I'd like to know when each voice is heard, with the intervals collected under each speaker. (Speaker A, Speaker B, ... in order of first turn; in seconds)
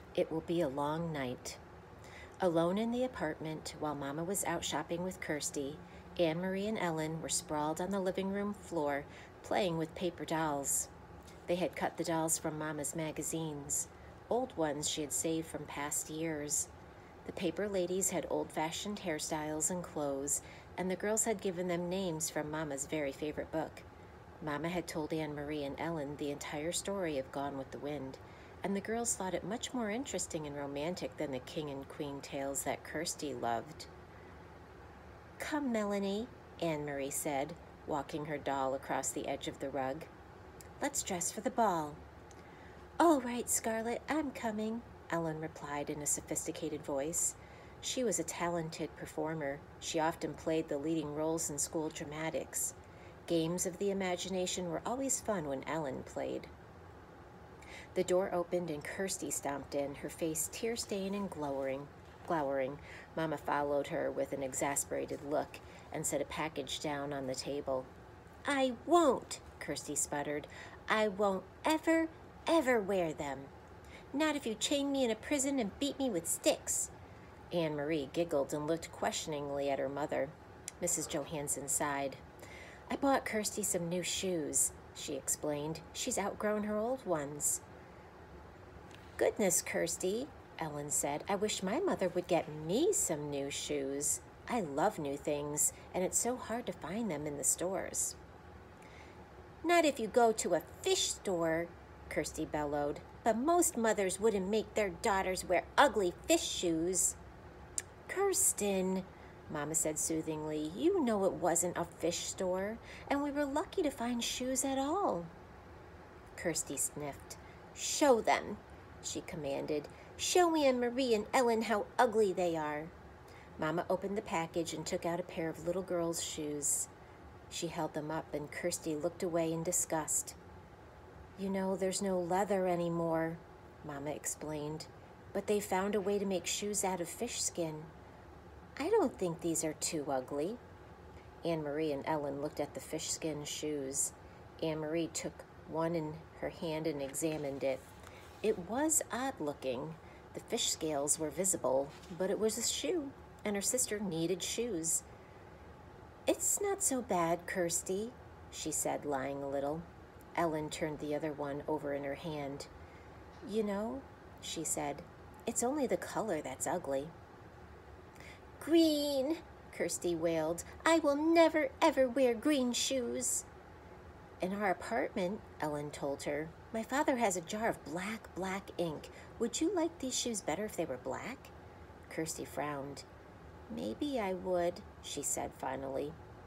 Speaker A: 0.1-1.6, 2.4-10.9, 11.5-16.7, 17.2-23.9, 24.4-33.9, 35.4-40.1, 40.8-42.0, 43.0-52.8, 53.3-56.5, 58.0-67.9, 68.5-73.5, 74.1-76.9, 77.5-82.2, 82.9-87.6, 89.2-98.2, 99.6-107.2, 108.1-115.3, 116.4-122.9, 123.6-126.9, 127.5-130.4, 131.4-137.9, 138.8-140.6, 141.4-147.9, 148.4-155.1, 156.3-162.7, 163.4-167.1, 168.6-173.5, 174.4-181.5, 182.1-183.1, 183.7-186.2